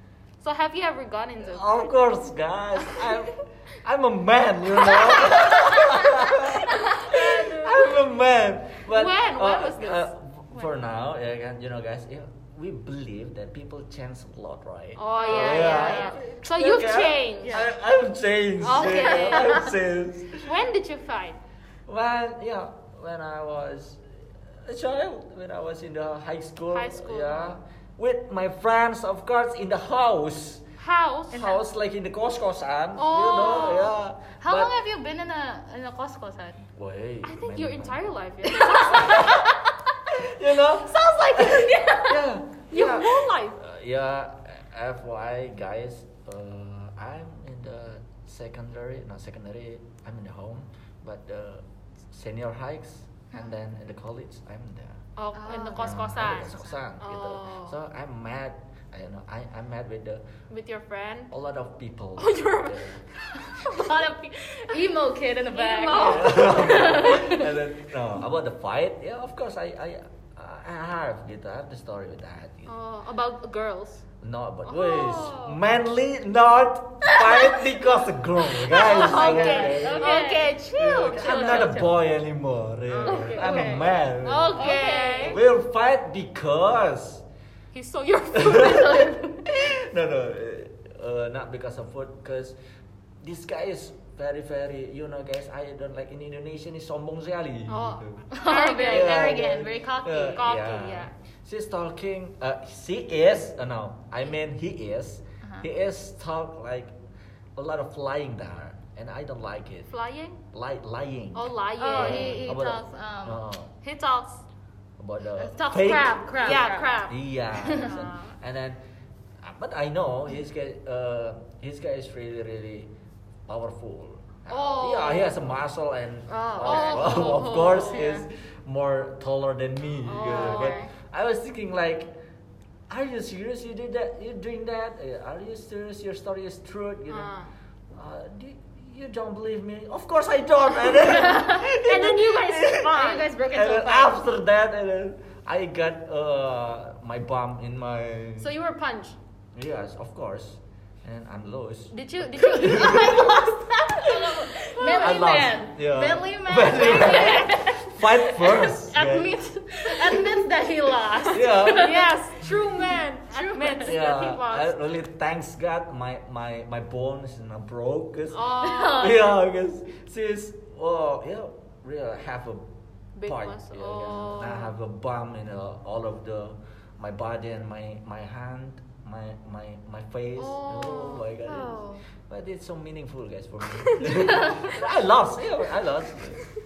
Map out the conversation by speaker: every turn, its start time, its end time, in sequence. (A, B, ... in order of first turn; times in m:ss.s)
0:00.4-0:02.0 A
0:01.4-0:20.5 B
0:04.9-0:05.7 A
0:05.4-0:07.2 C
0:06.6-0:08.0 A
0:08.9-0:10.1 A
0:15.0-0:17.7 A
0:15.2-0:16.2 C
0:17.4-0:17.7 C
0:18.6-0:19.7 A
0:18.8-0:19.7 C
0:20.4-0:21.4 A
0:21.9-0:24.0 B
0:24.6-0:30.6 B
0:26.7-0:27.6 A
0:30.8-0:31.6 A
0:31.3-0:34.7 B
0:33.0-0:34.0 A
0:34.4-0:36.6 C
0:36.7-0:38.1 B
0:37.2-0:39.5 A
0:38.5-0:39.7 C
0:38.9-0:39.4 B
0:40.1-0:55.0 B
0:40.8-0:42.3 C
0:42.7-0:43.6 A
0:55.2-0:57.8 A
0:55.3-0:56.8 C
0:55.7-1:00.3 B
1:00.5-1:01.3 A
1:01.3-1:03.0 B
1:02.2-1:04.0 A
1:03.4-1:07.5 C
1:05.5-1:07.2 A
1:06.0-1:12.7 B
1:12.7-1:14.0 A
1:14.2-1:27.2 B
1:14.7-1:15.6 A
1:17.0-1:17.6 C
1:18.5-1:21.9 C
1:18.7-1:21.8 A
1:22.9-1:25.4 A
1:23.0-1:25.4 C
1:27.7-1:29.2 A
1:28.3-1:32.6 B
1:28.5-1:29.4 C
1:33.2-1:38.2 B
1:37.7-1:39.5 A
1:38.3-1:40.5 C
1:38.8-1:46.9 B
1:40.3-1:41.1 A
1:47.6-1:49.9 B
1:49.9-1:50.4 A
1:50.5-1:53.7 B
1:51.3-1:52.5 A
1:51.8-1:53.4 C
1:53.8-1:54.5 A
1:55.0-1:58.8 B
1:55.4-1:57.9 C
1:55.7-1:58.4 A
1:59.4-2:02.9 B
2:03.5-2:12.1 B
2:04.5-2:05.6 A
2:06.3-2:08.1 A
2:06.6-2:08.3 C
2:10.0-2:10.9 A
2:10.3-2:10.9 C
2:12.9-2:17.3 B
2:17.1-2:17.5 A
2:17.9-2:28.6 B
2:21.0-2:21.8 C
2:21.7-2:23.3 A
2:22.5-2:24.2 C
2:28.4-2:29.2 A
2:29.5-2:33.3 B
2:31.9-2:33.6 A
2:32.4-2:42.2 C
2:34.1-2:35.2 A
2:35.0-2:39.4 B
2:36.8-2:37.5 A
2:41.3-2:42.1 B
2:41.5-2:44.8 A
2:43.3-2:44.0 C
2:43.8-2:52.7 B
2:48.3-2:49.2 A
2:48.6-2:49.3 C
2:53.2-2:54.7 A
2:53.3-3:06.4 B
3:00.4-3:01.7 A
3:01.5-3:02.0 C
3:03.8-3:04.2 A
3:04.1-3:04.8 C